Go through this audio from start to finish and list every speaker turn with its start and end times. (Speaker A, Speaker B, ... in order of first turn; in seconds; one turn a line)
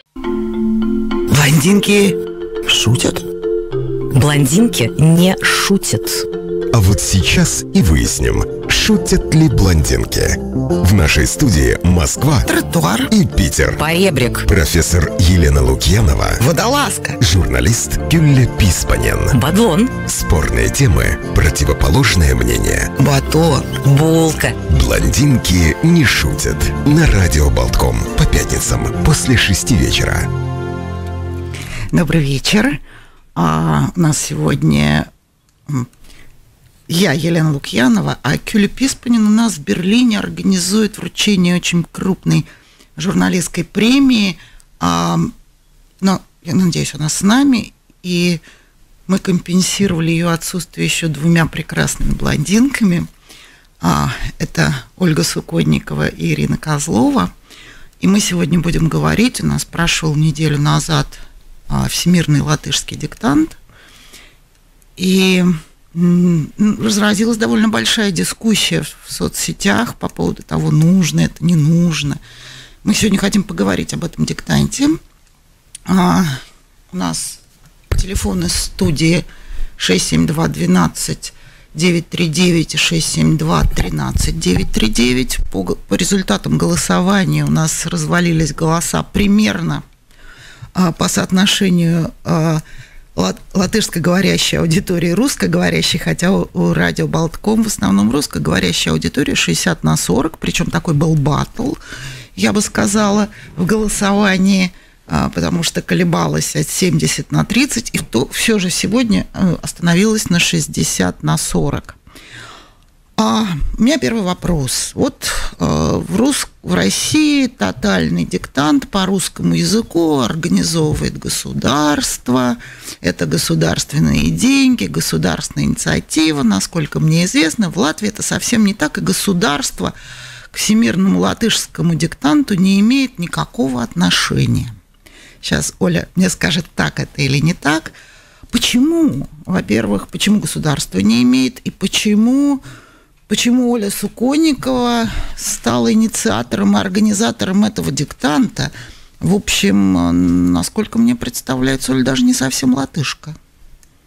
Speaker A: 1.3-3.2
Speaker B: 4.1-6.3
Speaker C: 6.7-12.5
Speaker A: 12.4-13.1
Speaker C: 13.1-13.8
Speaker B: 13.8-14.5
Speaker C: 14.5-16.4
Speaker A: 16.4-17.2
Speaker C: 17.2-19.4
Speaker B: 19.3-20.0
Speaker C: 20.0-22.9
Speaker A: 23.0-23.7
Speaker B: 23.8-24.6
Speaker C: 24.6-30.3
Speaker A: 31.9-32.8
Speaker A: 33.4-35.1
Speaker A: 36.9-45.3
Speaker A: 46.0-48.4
Speaker A: 49.1-53.1
Speaker A: 53.8-57.3
Speaker A: 58.0-63.6
Speaker A: 65.0-72.2
Speaker A: 72.8-75.0
Speaker A: 75.9-76.4
Speaker A: 76.9-77.4
Speaker A: 77.9-79.2
Speaker A: 79.8-89.8
Speaker A: 90.7-92.6
Speaker A: 93.2-101.8
Speaker A: 102.3-112.0
Speaker A: 113.2-129.9
Speaker A: 130.5-134.7
Speaker A: 135.4-137.9
Speaker A: 138.5-142.6
Speaker A: 143.3-153.4